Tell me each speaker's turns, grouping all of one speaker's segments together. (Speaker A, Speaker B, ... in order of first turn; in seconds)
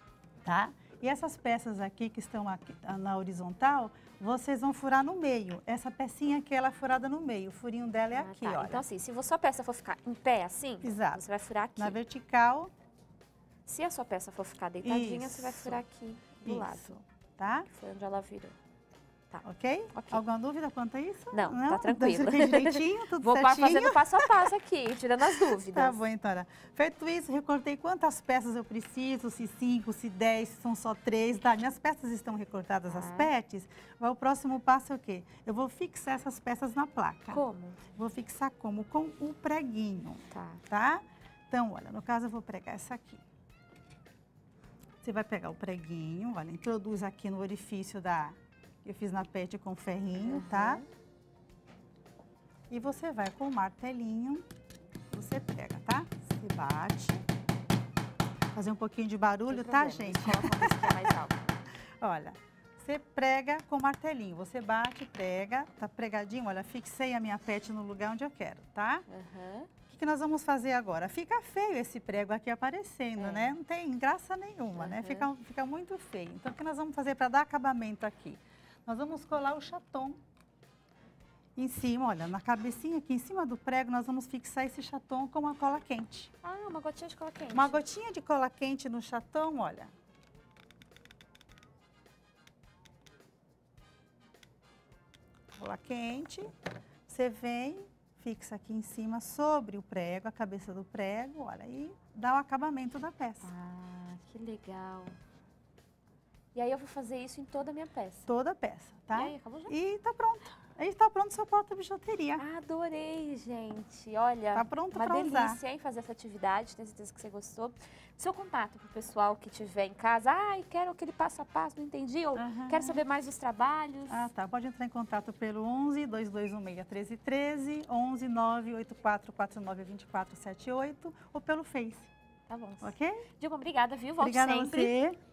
Speaker A: 0.4-8.8, 10.8-11.2, 11.8-12.7, 14.8-15.8, 16.4-17.7, 19.4-24.5, 25.2-37.4, 38.0-43.2, 45.0-50.9, 52.7-54.5, 55.1-57.2, 58.5-61.1, 62.0-69.1, 69.9-80.2, 81.6-86.3, 87.5-89.9, 95.6-96.5, 97.1-103.5, 108.3-112.4, 114.5-115.6, 122.3-123.0, 124.1-132.1, 132.8-133.2, 134.2-135.2
Speaker B: 8.1-12.0, 13.7-17.0, 17.7-18.6, 19.3-20.2, 21.3-26.0, 32.9-33.3, 37.3-37.8, 40.3-40.6, 50.2-50.9, 59.5-61.6, 69.1-69.7, 73.2-73.5, 74.8-75.3, 86.4-87.8, 103.4-105.2, 106.5-108.3, 109.1-109.7, 112.4-124.3, 132.5-135.0